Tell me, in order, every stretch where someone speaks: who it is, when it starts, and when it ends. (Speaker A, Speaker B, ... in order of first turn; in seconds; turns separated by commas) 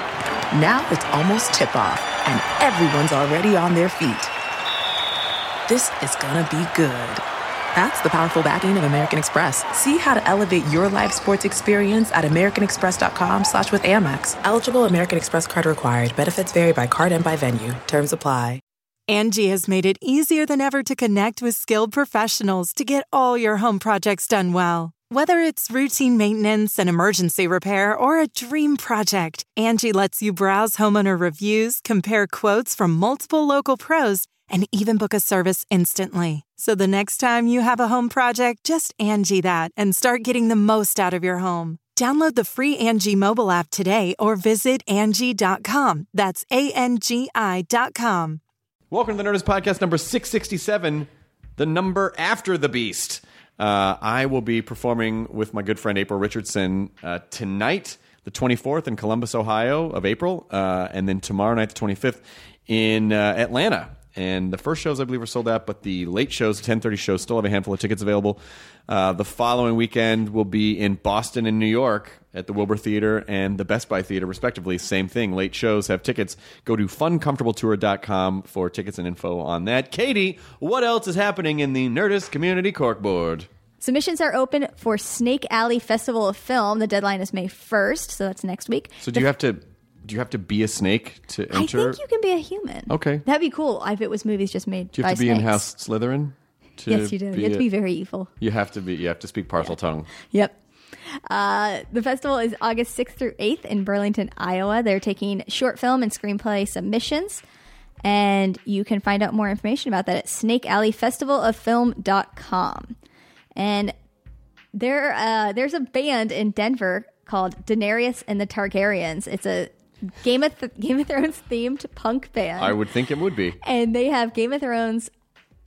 Speaker A: 0.5-4.3, Speaker A: 5.7-18.6, Speaker B: 19.1-48.4, Speaker C: 48.9-83.5, Speaker D: 83.8-89.3, Speaker C: 89.0-92.0, Speaker D: 91.5-95.7, Speaker C: 92.9-93.2, Speaker C: 94.9-97.7, Speaker D: 96.9-98.3, Speaker C: 98.4-100.1, Speaker D: 100.2-100.6, Speaker D: 101.3-107.4, Speaker D: 108.0-112.9, Speaker D: 113.5-113.9, Speaker D: 114.7-122.8, Speaker C: 122.6-123.6, Speaker D: 123.6-125.1